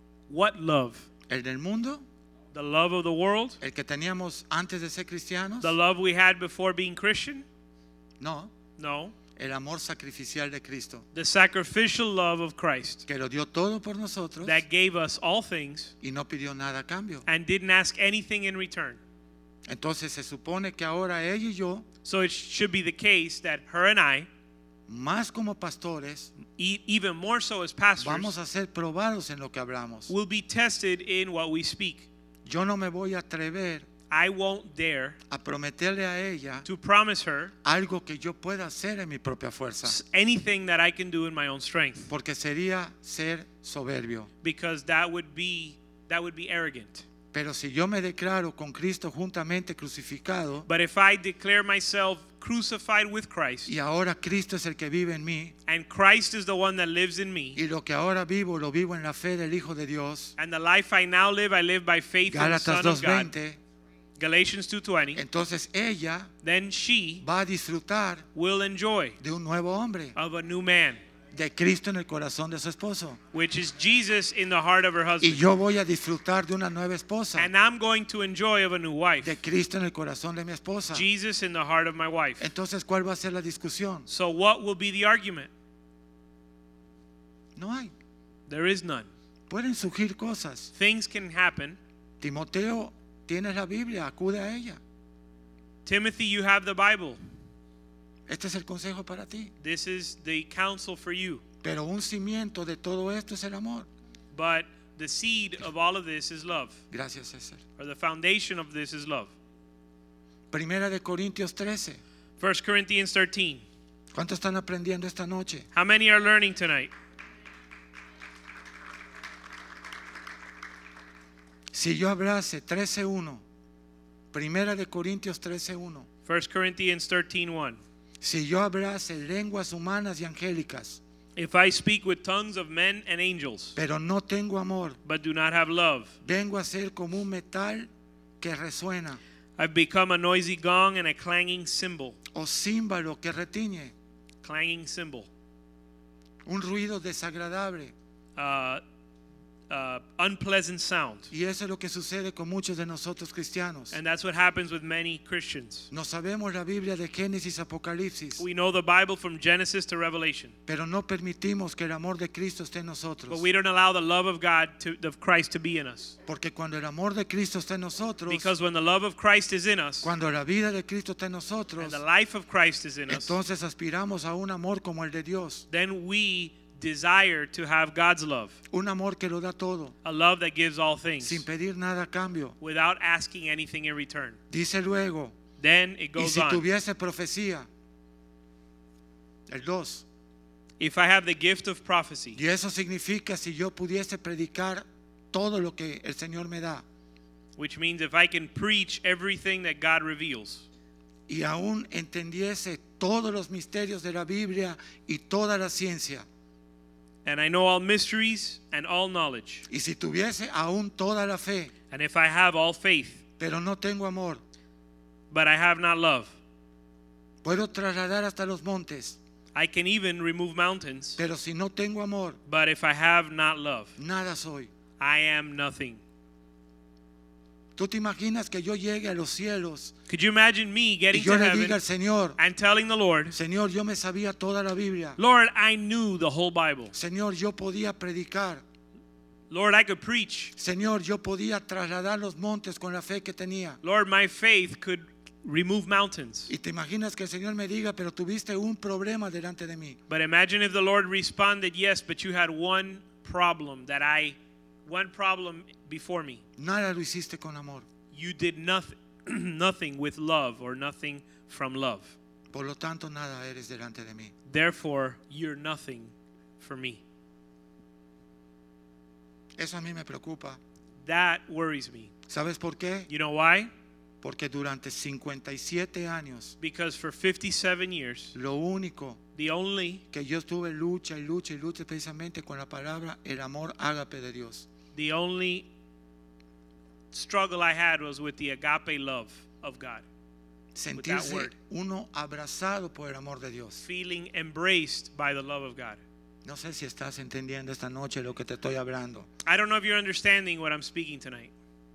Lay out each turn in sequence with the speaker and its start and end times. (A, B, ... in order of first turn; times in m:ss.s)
0:00.3-0:01.1 A
0:01.3-0:02.0 B
0:02.5-0:03.6 A
0:03.6-0:05.8 B
0:05.6-0:07.4 A
0:08.2-0:08.5 B
0:08.8-0:09.1 A
0:09.3-0:11.0 B
0:11.1-0:13.0 A
0:13.1-0:14.6 B
0:14.4-0:15.9 A
0:16.0-0:17.2 B
0:17.2-0:19.0 A
0:19.7-0:21.9 B
0:22.0-0:24.3 A
0:24.9-0:26.3 B
0:26.6-0:28.3 A
0:28.0-0:30.1 B
0:30.1-0:32.1 A
0:32.4-0:33.9 B
0:34.1-0:35.2 A
0:35.3-0:36.7 B
0:36.6-0:37.5 A
0:37.6-0:40.0 B
0:39.8-0:42.1 A
0:42.1-0:44.3 B
0:44.4-0:47.0 A
0:47.3-0:50.7 B
0:50.7-0:53.7 A
0:53.6-0:55.5 B
0:55.7-0:57.6 A
0:57.6-1:00.3 B
1:00.4-1:03.3 A
1:02.3-1:03.6 B
1:04.2-1:05.2 A
1:05.1-1:06.3 B
1:06.4-1:07.2 A
1:07.2-1:08.3 B
1:08.3-1:09.2 A
1:09.2-1:10.1 B
1:10.1-1:11.0 A
1:11.3-1:13.2 B
1:13.3-1:15.4 A
1:15.2-1:17.5 B
1:17.4-1:19.4 A
1:19.2-1:21.0 B
1:20.9-1:22.5 A
1:22.4-1:24.1 B
1:24.1-1:25.5 A
1:27.5-1:27.9 B
1:28.5-1:29.1 A
1:29.5-1:30.7 B
1:30.7-1:31.8 A
1:32.2-1:34.8 B
1:35.8-1:37.2 A
1:38.3-1:39.5 B
1:39.6-1:41.4 A
1:41.6-1:43.9 B
1:44.3-1:46.8 A
1:46.9-1:47.6 B
1:47.8-1:49.3 A
1:50.5-1:52.0 B
1:52.4-1:53.6 A
1:54.1-1:55.7 B
1:55.7-1:56.9 A
2:01.7-2:03.4 B
2:04.3-2:06.1 B
2:06.2-2:07.8 A
2:08.2-2:11.0 B
2:11.4-2:13.8 A
2:13.8-2:15.0 B
2:15.0-2:16.2 A
2:16.2-2:17.9 B
2:18.4-2:19.2 B
2:19.6-2:22.2 A
2:22.3-2:23.9 B
2:24.4-2:25.3 A
2:26.4-2:27.9 B
2:28.4-2:28.8 A
2:29.7-2:31.3 A
2:31.3-2:34.0 B
2:33.9-2:35.9 A
2:35.9-2:38.4 B
2:38.4-2:40.5 A
2:40.7-2:43.4 B
2:43.3-2:46.2 A
2:46.2-2:48.5 B
2:48.3-2:50.1 A
2:50.0-2:52.0 B
2:51.8-2:53.4 A
2:53.1-2:55.6 B
2:55.7-2:58.6 A
2:58.7-2:59.9 B
3:00.0-3:01.4 A
3:01.2-3:02.6 B
3:02.6-3:04.4 A
3:04.5-3:05.3 B
3:05.6-3:06.6 A
3:06.2-3:07.7 B
3:09.5-3:10.0 B
3:10.8-3:12.4 A
3:12.3-3:16.8 B
3:17.6-3:20.7 A
3:21.3-3:26.2 B
3:27.2-3:29.7 A
3:29.7-3:31.7 B
3:31.9-3:33.2 A
3:33.4-3:34.4 B
3:35.3-3:36.3 A
3:37.4-3:39.2 B
3:39.5-3:41.2 A
3:41.2-3:42.4 B
3:42.4-3:43.9 A
3:44.0-3:44.7 B
3:45.0-3:46.0 A
3:47.8-3:49.9 B
3:50.1-3:51.8 A
3:51.1-3:52.4 B
3:52.4-3:53.4 A
3:53.3-3:55.2 B
3:55.2-3:56.9 A
3:56.9-3:58.6 B
3:59.5-4:00.5 A
4:00.6-4:03.8 B
4:03.8-4:06.5 A
4:06.5-4:10.0 B
4:10.1-4:16.4 A
4:16.6-4:17.8 B
4:18.1-4:22.2 A
4:22.5-4:24.3 B
4:24.5-4:27.0 A
4:29.6-4:30.6 B
4:31.0-4:32.1 A
4:32.3-4:33.1 B
4:33.1-4:33.7 A
4:34.2-4:36.5 B
4:36.6-4:38.3 A
4:38.3-4:39.2 B
4:39.4-4:40.0 A
4:40.1-4:44.7 B
4:44.9-4:45.7 A
4:47.1-4:50.0 A
4:50.7-4:53.8 B
4:51.0-4:51.5 A
4:53.8-4:56.0 A
4:56.4-4:59.3 B
4:59.4-5:01.5 A